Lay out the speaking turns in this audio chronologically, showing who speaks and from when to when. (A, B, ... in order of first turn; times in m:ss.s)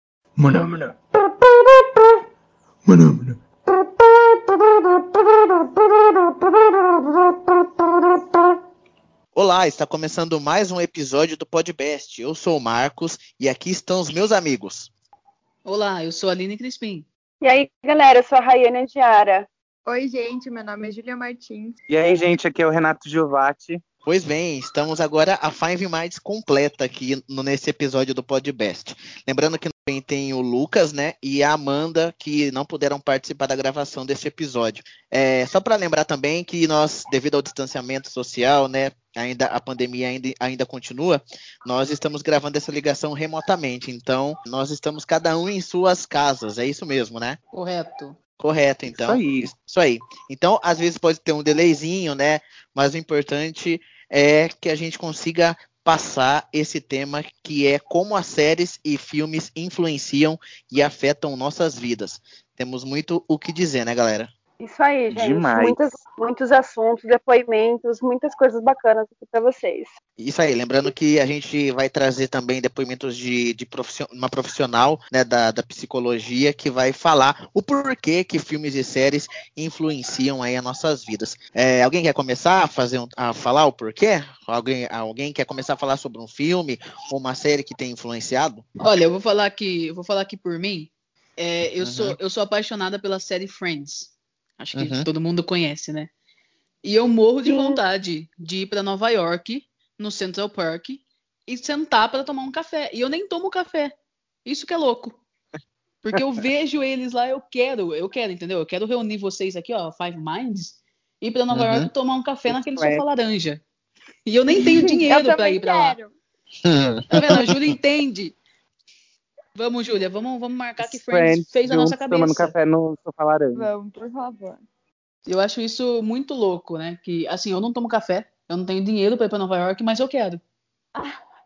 0:00.4-0:02.2 A
0:02.8-0:08.6 A
0:09.3-0:14.9 B
0:15.6-0:17.0 C
0:17.4-0:19.5 D
0:19.8-0:21.8 E
0:21.9-0:23.8 F
0:24.0-0:47.4 B
0:47.5-0:48.2 C
0:48.4-1:04.3 B
0:48.9-0:49.5 F
1:04.6-1:09.9 D
1:05.1-1:05.8 F
1:10.2-1:28.6 B
1:28.8-1:36.1 C
1:31.8-1:32.2 B
1:34.7-1:35.1 B
1:36.8-1:43.9 C
1:37.4-1:37.8 D
1:44.4-1:45.2 C
1:46.0-1:53.6 C
1:51.5-1:51.9 B
1:52.6-1:53.0 F
1:54.2-1:56.0 C
1:54.5-1:56.1 D
1:56.6-1:57.8 B
1:57.1-1:58.4 C
1:59.5-2:02.5 C
2:00.8-2:03.6 F
2:03.5-2:04.6 E
2:05.2-2:10.4 C